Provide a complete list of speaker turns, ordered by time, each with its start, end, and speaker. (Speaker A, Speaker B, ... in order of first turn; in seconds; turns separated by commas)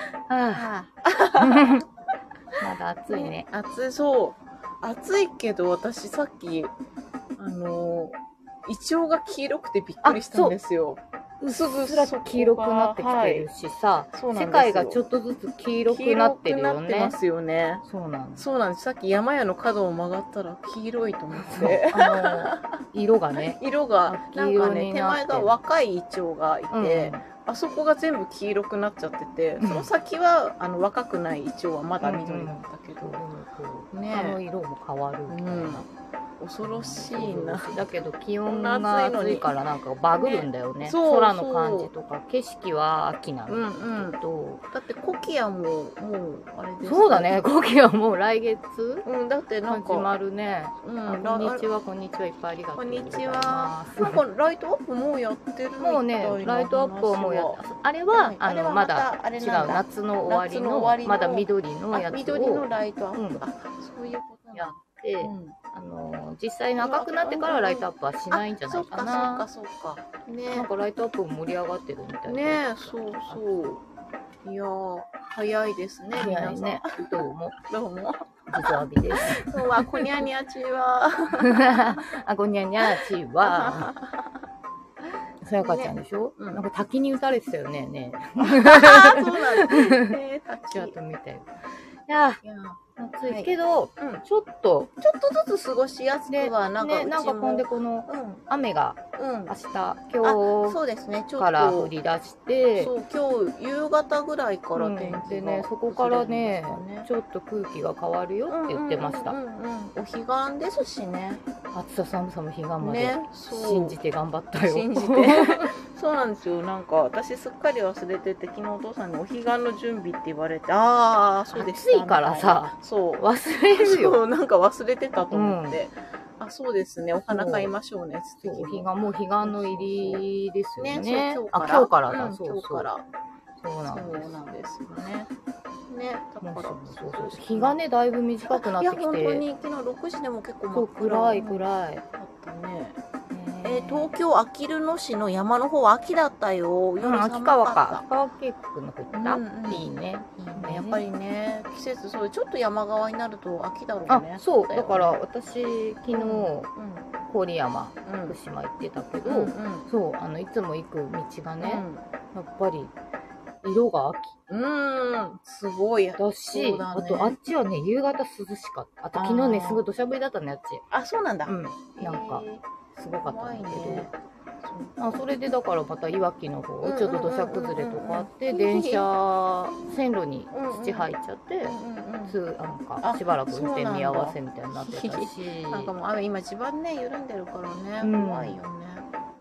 Speaker A: 0.3-0.7, Speaker B: 0.5-1.9, Speaker A: 1.4-1.9, Speaker A: 2.6-3.5, Speaker B: 3.1-6.7, Speaker B: 7.4-13.5, Speaker A: 10.0-10.6, Speaker A: 11.4-17.1, Speaker B: 14.1-15.1, Speaker B: 15.8-17.8, Speaker A: 17.8-18.4, Speaker B: 18.4-22.8, Speaker A: 21.4-25.5, Speaker B: 23.4-33.2, Speaker A: 26.7-27.2, Speaker A: 29.6-29.9, Speaker A: 32.0-35.9, Speaker B: 33.9-34.4, Speaker B: 35.3-35.9, Speaker B: 36.4-37.9, Speaker A: 36.6-44.7, Speaker B: 38.5-39.5, Speaker B: 40.2-41.9, Speaker B: 43.5-44.2, Speaker B: 44.7-47.4, Speaker A: 46.8-49.0, Speaker B: 49.0-50.1, Speaker A: 49.7-54.2, Speaker B: 50.8-51.6, Speaker B: 52.8-57.6, Speaker A: 55.8-63.4, Speaker B: 58.1-65.6, Speaker A: 64.5-69.5, Speaker B: 66.7-70.7, Speaker A: 70.5-73.4, Speaker B: 72.2-73.8, Speaker B: 74.4-77.1, Speaker A: 76.1-77.6, Speaker B: 77.7-82.0, Speaker A: 78.5-80.2, Speaker A: 81.4-83.9, Speaker B: 82.8-84.4, Speaker A: 85.4-90.2, Speaker B: 85.6-86.6, Speaker B: 88.4-91.0, Speaker A: 90.7-92.4, Speaker B: 92.4-94.2, Speaker A: 93.0-94.9, Speaker B: 95.0-98.5, Speaker A: 96.3-100.8, Speaker B: 99.2-99.5, Speaker B: 100.2-101.9, Speaker A: 101.4-102.9, Speaker B: 102.8-107.1, Speaker A: 104.8-109.4, Speaker B: 108.5-111.4, Speaker A: 111.7-115.7, Speaker B: 112.8-114.0, Speaker B: 114.6-130.2, Speaker A: 121.5-124.2, Speaker A: 125.3-125.8, Speaker A: 127.3-127.7, Speaker A: 128.4-132.9, Speaker B: 130.8-133.0, Speaker A: 133.6-134.4, Speaker B: 133.9-135.3, Speaker B: 135.9-137.8, Speaker A: 136.4-139.4, Speaker B: 138.4-143.0, Speaker A: 140.7-142.0, Speaker A: 143.3-144.1, Speaker B: 143.6-148.0, Speaker A: 147.0-151.0, Speaker B: 149.1-155.1, Speaker A: 154.1-156.7, Speaker B: 156.1-157.1, Speaker A: 157.3-162.9, Speaker B: 158.0-158.4, Speaker B: 159.2-159.9, Speaker B: 161.6-162.1, Speaker A: 163.6-164.4, Speaker B: 164.5-167.4, Speaker A: 166.2-170.8, Speaker B: 169.1-169.8, Speaker B: 170.9-172.7, Speaker A: 171.4-174.1, Speaker B: 173.2-175.2, Speaker A: 175.0-181.8, Speaker B: 176.8-179.1, Speaker B: 180.5-181.1, Speaker B: 181.7-182.3, Speaker A: 182.3-185.9, Speaker B: 183.0-189.1, Speaker A: 188.0-188.6